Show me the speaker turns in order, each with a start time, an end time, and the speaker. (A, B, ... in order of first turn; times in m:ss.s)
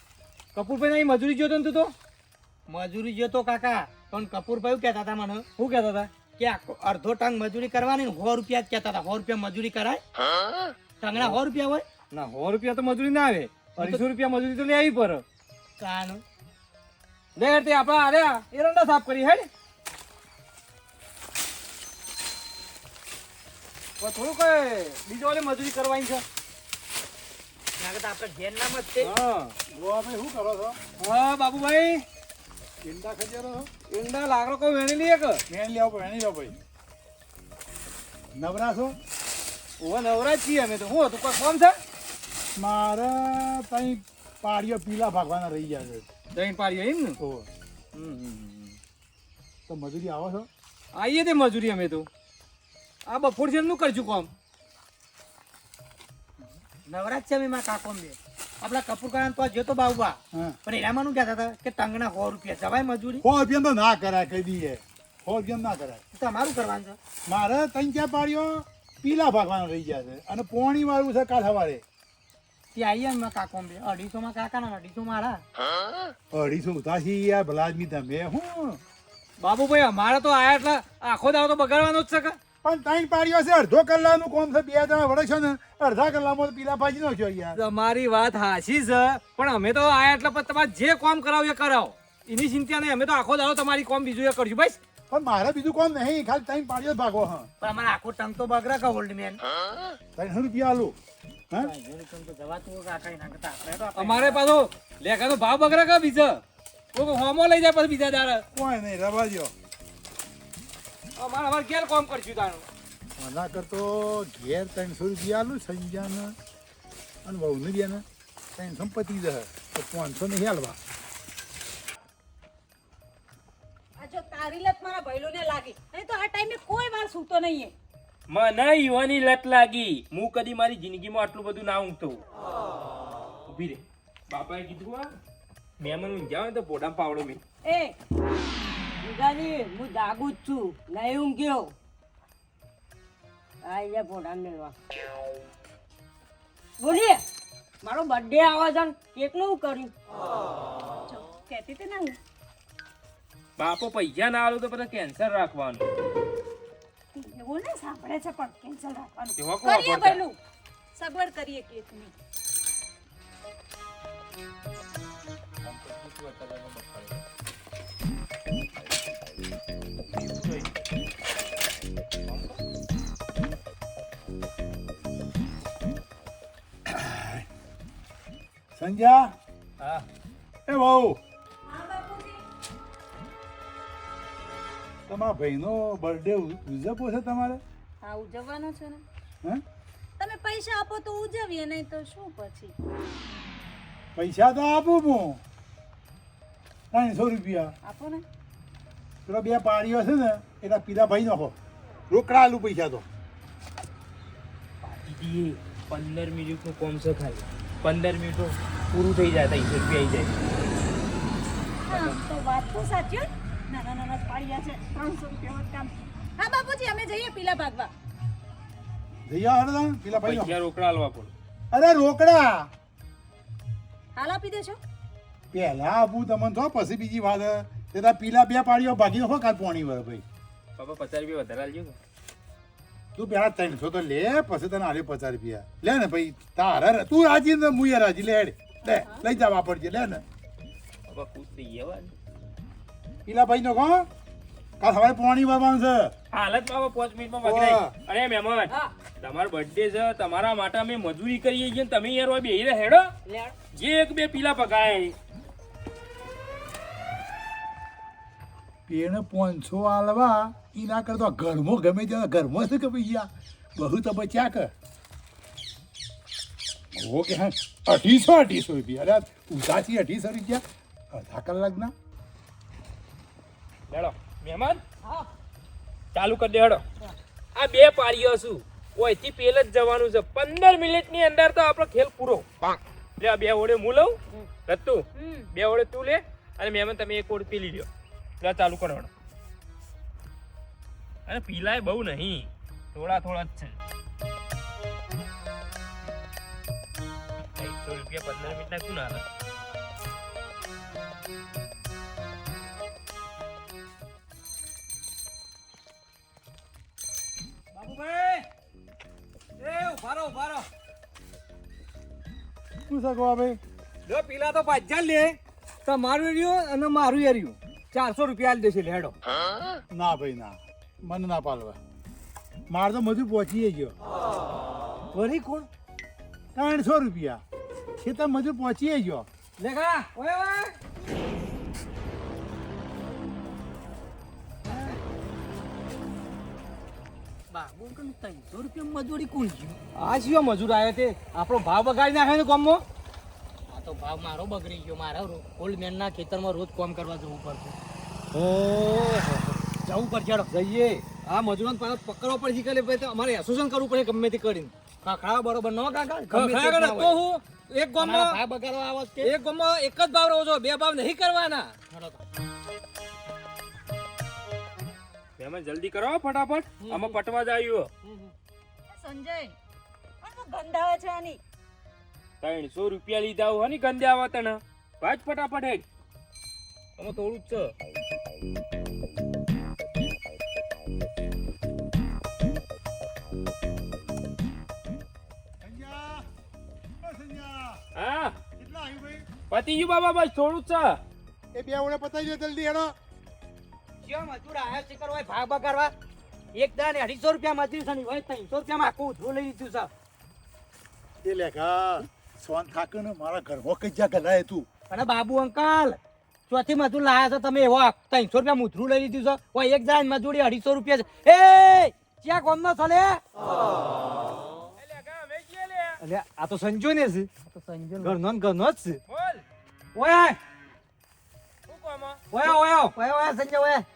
0:00.5-0:01.9 A
0:02.7-0:05.5 B
0:05.6-0:06.1 A
0:06.4-0:10.0 B
0:11.0-0:11.8 B
0:11.1-0:11.4 A
0:12.1-0:15.2 A
0:13.8-0:14.0 B
0:15.8-0:16.2 B
0:17.4-0:19.5 A
0:24.0-0:26.2 A
0:27.8-0:29.1 B
0:29.0-0:29.5 A
0:29.7-0:30.8 C
0:31.0-0:32.0 A
0:32.8-0:33.7 C
0:33.9-0:35.4 A
0:35.5-0:36.6 C
0:38.3-0:39.0 C
0:39.8-0:41.8 A
0:42.6-0:46.0 C
0:46.3-0:47.2 A
0:47.2-0:47.5 C
0:47.9-0:48.8 A
0:49.7-0:50.5 C
0:50.9-0:52.1 A
0:53.0-0:54.3 A
0:56.8-1:03.2 B
1:00.3-1:00.6 C
1:03.2-1:06.0 C
1:06.1-1:07.0 B
1:07.3-1:11.8 C
1:12.7-1:15.4 B
1:16.3-1:18.8 C
1:19.4-1:22.4 A
1:22.6-1:27.6 C
1:27.5-1:34.8 A
1:35.1-1:37.5 C
1:37.6-1:39.4 B
1:40.2-1:41.0 C
1:41.6-1:44.5 B
1:43.9-1:46.4 A
1:46.9-1:48.4 A
1:48.5-1:49.5 C
1:51.2-1:52.6 A
1:53.2-1:56.3 C
1:57.2-2:00.8 C
2:04.0-2:07.7 D
2:08.3-2:12.2 E
2:13.5-2:15.1 E
2:15.8-2:17.4 E
2:17.6-2:18.0 F
2:19.0-2:21.7 F
2:23.6-2:24.7 F
2:26.8-2:27.2 F
2:27.8-2:29.9 F
2:31.0-2:32.2 D
2:33.6-2:35.8 E
2:37.1-2:40.4 D
2:39.4-2:40.2 E
2:40.9-2:42.1 D
2:45.6-2:47.2 E
2:50.1-2:50.7 E
2:52.3-2:52.6 E
2:56.9-2:57.4 C
2:58.7-2:59.3 C
2:59.8-3:00.0 E
3:00.7-3:01.2 C
3:01.7-3:02.4 D
3:05.1-3:07.6 C
3:08.0-3:09.0 D
3:10.2-3:12.7 D
3:14.2-3:15.4 C
3:16.9-3:17.7 C
3:17.8-3:18.2 D
3:19.2-3:21.6 C
3:22.1-3:23.0 C
3:24.8-3:30.3 E
3:31.9-3:37.9 D
3:31.9-3:32.2 E
3:39.2-3:40.6 C
3:40.1-3:41.3 E
3:41.7-3:42.7 C
3:44.2-3:44.8 D
3:45.5-3:50.2 C
3:50.8-3:52.0 E
3:53.1-4:00.2 C
3:58.8-3:59.2 D
4:01.1-4:02.1 E
4:03.2-4:04.1 C
4:04.8-4:06.1 C
4:06.3-4:13.1 E
4:07.5-4:07.8 A
4:08.7-4:08.9 F
4:13.2-4:13.6 F
4:13.7-4:15.1 E
4:18.9-4:24.7 C
4:26.9-4:31.9 C
4:33.9-4:34.8 E
4:36.1-4:36.8 E
4:37.5-4:42.5 E
4:43.2-4:45.0 E
4:45.1-4:45.5 D
4:45.5-4:47.9 E
4:48.4-4:49.1 E
4:51.3-4:53.8 E
4:57.6-4:59.2 E
5:07.7-5:08.5 A
5:09.6-5:10.6 A
5:12.9-5:13.6 C
5:14.0-5:19.1 A
5:19.9-5:21.8 C
5:22.7-5:23.9 C
5:25.1-5:25.7 A
5:26.5-5:27.4 C
5:28.0-5:29.2 C
5:29.6-5:30.8 A
5:34.6-5:35.0 A
5:34.6-5:35.0 B
5:37.5-5:39.8 B
5:39.9-5:42.8 A
5:43.7-5:47.8 B
5:48.3-5:49.6 A
5:49.8-5:50.5 B
5:50.5-5:54.7 A
5:55.0-5:57.2 B
5:56.3-5:58.4 A
5:58.0-5:59.3 B
5:59.2-6:01.8 A
6:01.9-6:02.2 B
6:05.4-6:07.9 E
6:06.8-6:07.1 A
6:08.0-6:08.3 A
6:08.9-6:09.5 D
6:10.2-6:11.4 D
6:12.4-6:15.8 E
6:17.0-6:17.7 E
6:25.6-6:26.2 C
6:27.0-6:27.8 C
6:27.9-6:28.4 E
6:28.6-6:29.2 C
6:29.5-6:31.0 E
6:31.5-6:32.9 C
6:34.0-6:35.9 B
6:36.5-6:39.9 B
6:41.2-6:44.7 C
6:44.9-6:53.2 B
6:54.8-6:56.0 E
6:56.0-6:57.3 A
6:57.5-6:58.2 B
6:58.0-6:59.0 A
6:59.1-6:59.4 E
6:59.9-7:00.4 A
7:01.7-7:02.2 E
7:02.3-7:02.9 A
7:02.4-7:03.8 B